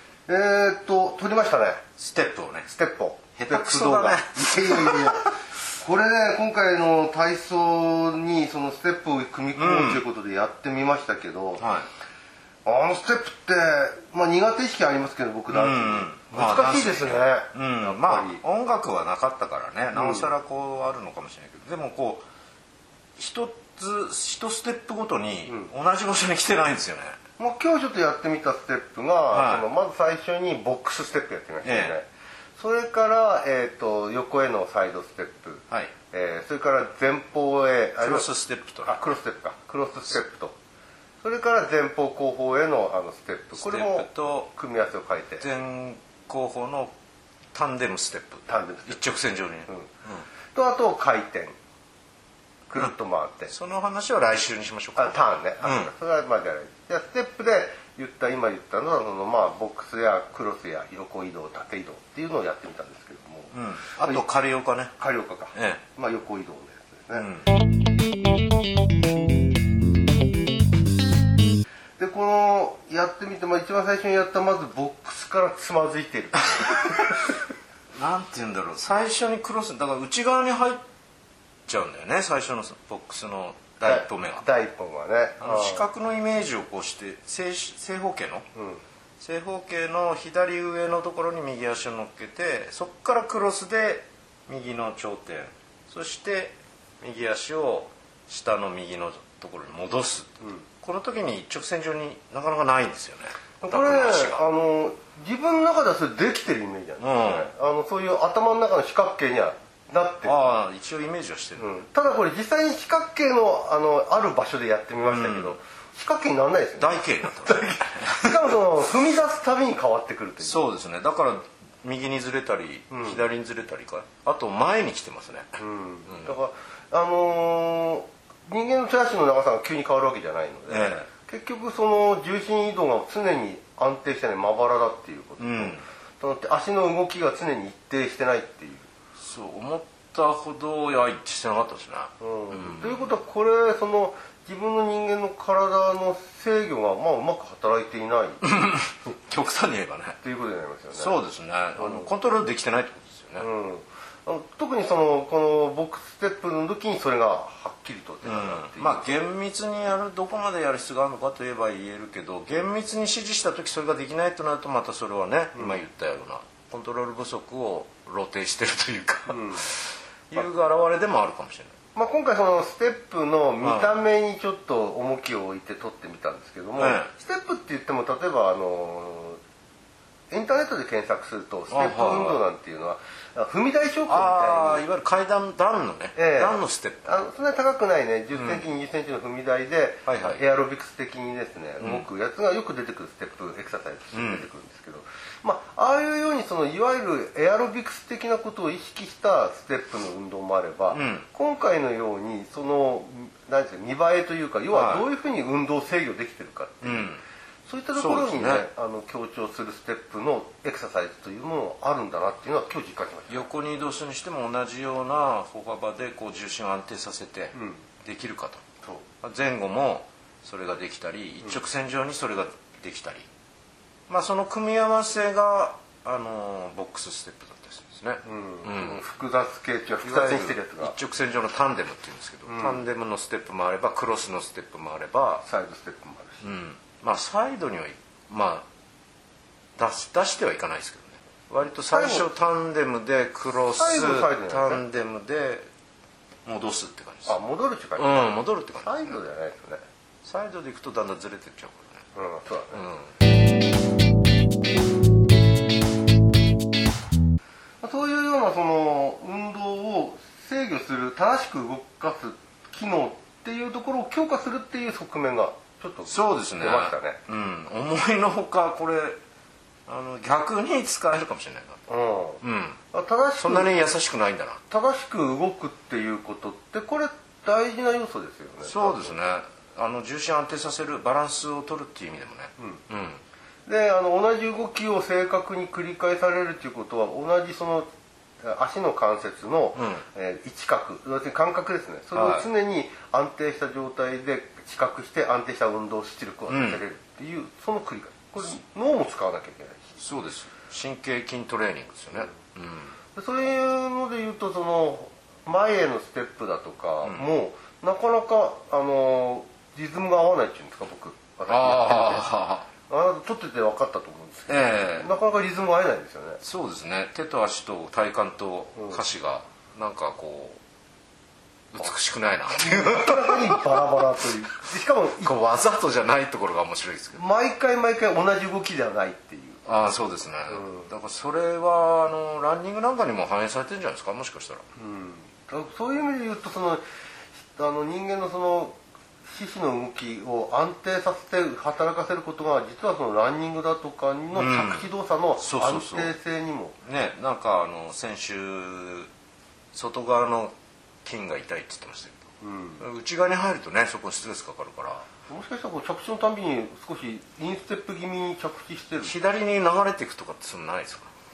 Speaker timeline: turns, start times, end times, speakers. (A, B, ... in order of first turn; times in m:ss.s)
0:00.3-0:01.8 A
0:02.0-0:02.7 B
0:02.7-0:11.6 A
0:03.4-0:05.2 B
0:09.6-0:10.0 B
0:11.6-0:11.9 B
0:12.6-0:18.4 A
0:15.5-0:22.2 B
0:19.9-0:20.3 A
0:23.2-0:27.2 B
0:25.5-0:25.7 A
0:27.4-0:40.6 A
0:29.3-0:29.7 B
0:31.6-0:32.0 B
0:38.0-0:39.0 B
0:41.2-0:45.5 A
0:43.6-0:44.5 B
0:45.4-0:46.9 B
0:47.5-0:50.3 B
0:48.5-0:49.0 A
0:50.5-0:51.6 A
0:52.7-0:53.5 A
0:53.5-0:55.9 B
0:55.0-1:04.2 A
1:03.5-1:05.0 B
1:05.0-1:07.3 A
1:05.6-1:05.8 B
1:07.2-1:07.5 B
1:12.0-1:17.1 A
1:16.7-1:17.3 B
1:18.0-1:20.8 B
1:21.7-1:24.4 B
1:23.8-1:25.8 A
1:25.4-1:28.5 B
1:28.6-1:28.8 A
1:29.2-1:44.4 B
1:43.6-1:50.4 A
1:47.0-1:47.5 B
1:50.2-1:51.7 B
1:51.6-2:00.6 A
1:55.0-1:55.6 B
1:56.8-1:58.4 B
2:00.4-2:06.3 B
2:02.9-2:03.2 A
2:05.6-2:18.9 A
2:10.7-2:11.1 B
2:15.4-2:15.8 B
2:19.2-2:23.1 B
2:22.2-2:28.4 A
2:28.4-2:30.2 B
2:30.2-2:31.2 A
2:31.0-2:33.5 B
2:31.8-2:32.1 A
2:33.4-2:39.1 A
2:38.2-2:51.7 B
2:49.3-2:49.6 A
2:52.0-2:59.4 A
2:53.6-2:53.9 B
2:56.8-2:57.1 B
3:00.3-3:04.8 A
3:01.7-3:02.4 B
3:04.1-3:07.1 B
3:06.2-3:27.1 A
3:08.3-3:08.6 B
3:10.1-3:10.4 B
3:11.8-3:12.1 B
3:14.1-3:14.5 B
3:20.9-3:21.3 B
3:24.7-3:25.0 B
3:26.8-3:27.2 B
3:27.7-3:33.5 A
3:28.0-3:28.7 B
3:33.3-3:38.6 B
3:37.6-3:37.8 A
3:39.2-3:43.3 B
3:44.1-3:49.0 B
3:48.2-3:50.9 A
3:50.0-3:55.4 B
3:52.5-3:52.9 A
3:55.4-3:56.5 A
3:56.4-3:58.7 B
3:59.8-4:05.7 B
4:01.9-4:02.3 A
4:03.7-4:04.8 A
4:06.4-4:07.4 B
4:07.3-4:09.8 A
4:08.0-4:09.2 B
4:10.2-4:12.0 B
4:12.2-4:12.8 A
4:12.7-4:13.1 B
4:17.8-4:27.2 A
4:26.1-4:29.2 B
4:29.9-4:31.9 B
4:31.9-4:33.8 A
4:32.4-4:32.8 B
4:33.4-4:34.6 B
4:34.7-4:39.2 A
4:38.6-4:43.2 B
4:43.7-4:47.9 A
4:48.4-5:00.0 A
4:49.8-4:50.0 B
4:52.2-4:52.5 B
4:56.5-4:56.8 B
5:00.0-5:02.9 B
5:03.2-5:12.3 A
5:11.5-5:12.7 B
5:12.9-5:16.4 A
5:14.5-5:15.1 B
5:16.4-5:20.6 B
5:21.7-5:23.7 B
5:22.5-5:25.4 A
5:25.2-5:27.2 B
5:27.1-5:29.6 A
5:29.6-5:34.6 B
5:30.5-5:30.9 A
5:34.8-5:36.8 A
5:37.5-5:46.8 A
5:44.3-5:46.1 B
5:46.8-5:49.1 B
5:49.7-5:50.5 B
5:51.0-5:52.2 B
5:52.4-5:52.8 A
5:52.8-5:55.1 B
5:55.3-5:59.2 A
5:59.0-6:01.1 B